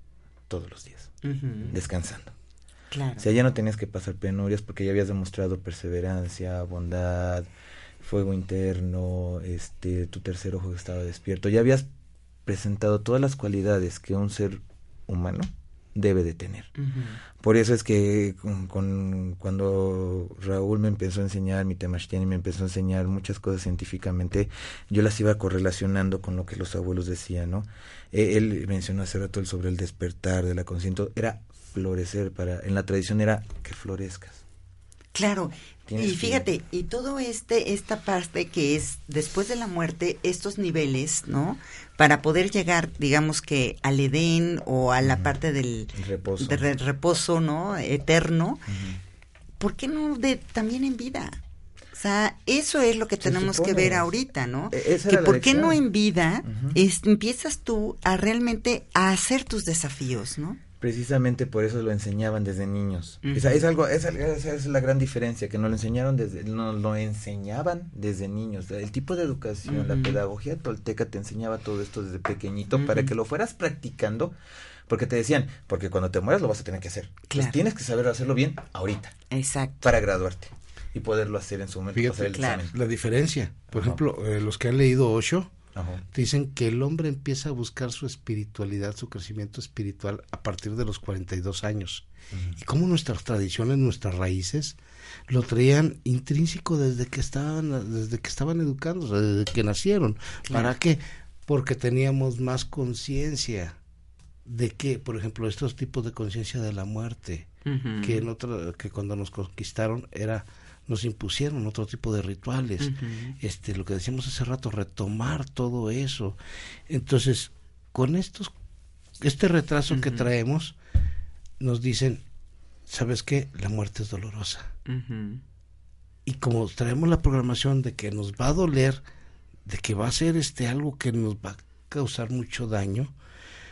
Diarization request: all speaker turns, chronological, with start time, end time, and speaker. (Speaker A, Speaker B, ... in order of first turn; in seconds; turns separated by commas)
Speaker A: 0.5-1.1, Speaker B: 1.2-1.7, Speaker A: 1.7-2.4, Speaker B: 2.9-3.2, Speaker A: 3.2-7.5, Speaker A: 8.0-11.9, Speaker A: 12.5-16.7, Speaker B: 16.8-17.2, Speaker A: 17.4-34.4, Speaker B: 35.1-48.7, Speaker A: 35.9-36.5, Speaker A: 45.0-45.3, Speaker A: 45.9-46.6, Speaker A: 48.7-49.0, Speaker B: 49.6-51.4, Speaker B: 51.9-60.6, Speaker A: 53.2-54.1, Speaker A: 54.7-55.8, Speaker A: 56.5-56.8, Speaker A: 60.8-74.3, Speaker B: 63.2-63.5, Speaker B: 69.7-70.2, Speaker B: 72.8-73.1, Speaker A: 74.9-79.2, Speaker B: 77.3-77.6, Speaker B: 79.3-79.9, Speaker A: 79.8-82.8, Speaker C: 81.9-85.5, Speaker B: 82.3-82.7, Speaker A: 83.7-84.0, Speaker A: 85.8-86.0, Speaker C: 86.1-92.1, Speaker C: 92.6-103.8, Speaker C: 104.5-107.5, Speaker B: 107.7-108.2, Speaker C: 108.0-118.5, Speaker B: 112.8-113.4, Speaker C: 119.2-120.8, Speaker B: 119.9-120.3, Speaker C: 121.6-122.2, Speaker C: 122.9-124.7, Speaker B: 124.9-125.4, Speaker C: 126.2-129.0, Speaker C: 129.7-133.1